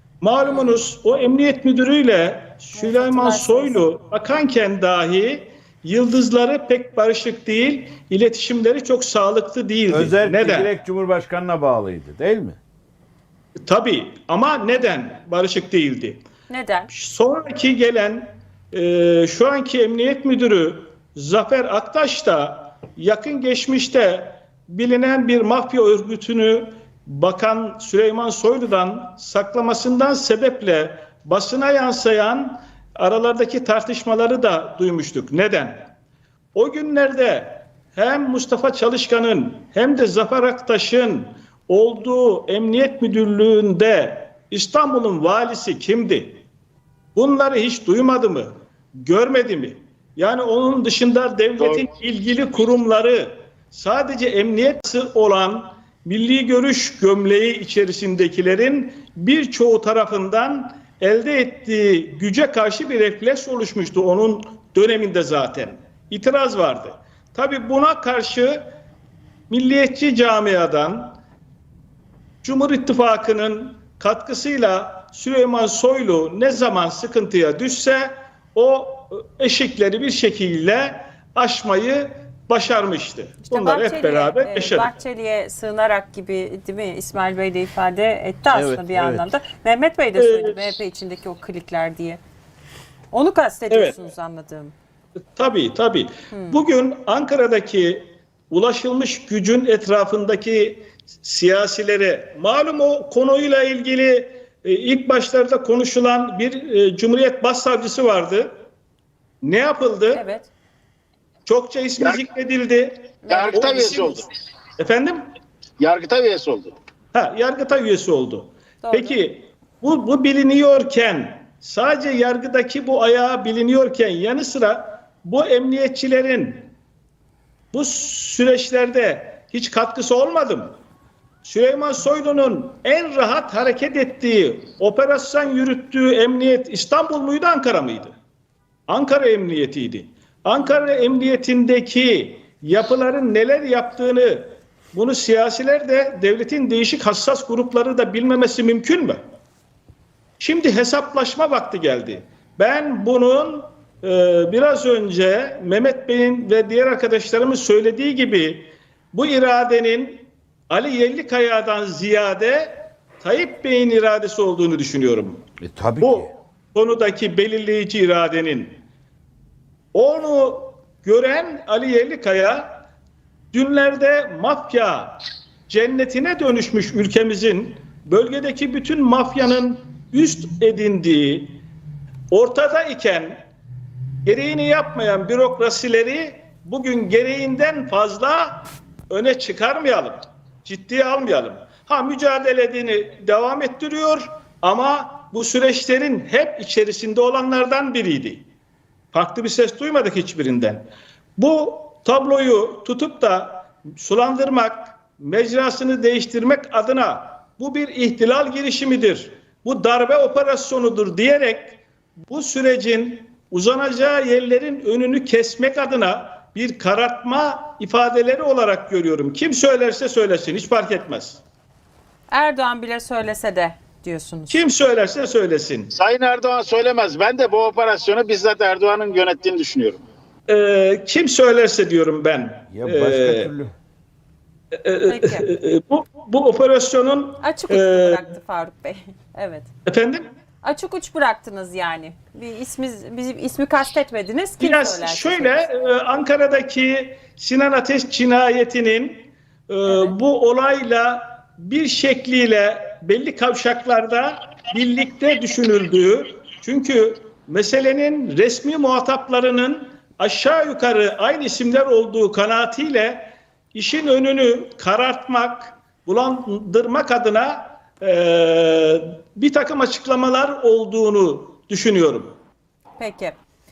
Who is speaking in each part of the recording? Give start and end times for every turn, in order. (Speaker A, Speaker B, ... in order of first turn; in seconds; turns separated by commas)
Speaker A: 0.2-10.7, Speaker B: 0.5-0.8, Speaker B: 2.7-3.9, Speaker C: 9.9-12.6, Speaker A: 13.7-16.2, Speaker B: 16.5-16.9, Speaker A: 16.9-35.9, Speaker A: 36.5-46.4, Speaker A: 47.1-48.5, Speaker A: 49.0-68.7, Speaker A: 69.5-71.2, Speaker A: 72.4-84.9, Speaker B: 83.5-92.2, Speaker C: 88.6-89.2, Speaker A: 90.2-90.6, Speaker B: 93.1-94.7, Speaker A: 93.7-93.9, Speaker A: 95.3-108.5, Speaker B: 96.3-96.6, Speaker A: 109.4-110.2, Speaker B: 110.1-110.5, Speaker A: 111.5-114.1, Speaker B: 113.2-114.2, Speaker D: 113.3-114.2, Speaker A: 114.8-115.2, Speaker D: 115.8-116.7, Speaker A: 117.1-126.7, Speaker B: 118.8-119.2, Speaker A: 127.7-130.8, Speaker A: 131.4-138.1, Speaker A: 138.9-149.2, Speaker A: 150.4-165.4, Speaker C: 165.6-166.1, Speaker A: 166.0-168.8, Speaker A: 169.9-172.8, Speaker A: 173.5-181.6, Speaker A: 182.3-183.4, Speaker A: 184.2-198.4, Speaker A: 199.1-221.4, Speaker B: 222.3-224.7, Speaker A: 224.5-225.9, Speaker D: 225.9-230.0, Speaker A: 230.5-233.5, Speaker C: 232.8-233.7, Speaker A: 234.7-238.2, Speaker B: 235.1-235.5, Speaker B: 237.4-239.7, Speaker A: 239.8-240.2, Speaker B: 240.6-245.7, Speaker A: 244.6-272.3, Speaker B: 249.8-250.2, Speaker B: 273.0-273.4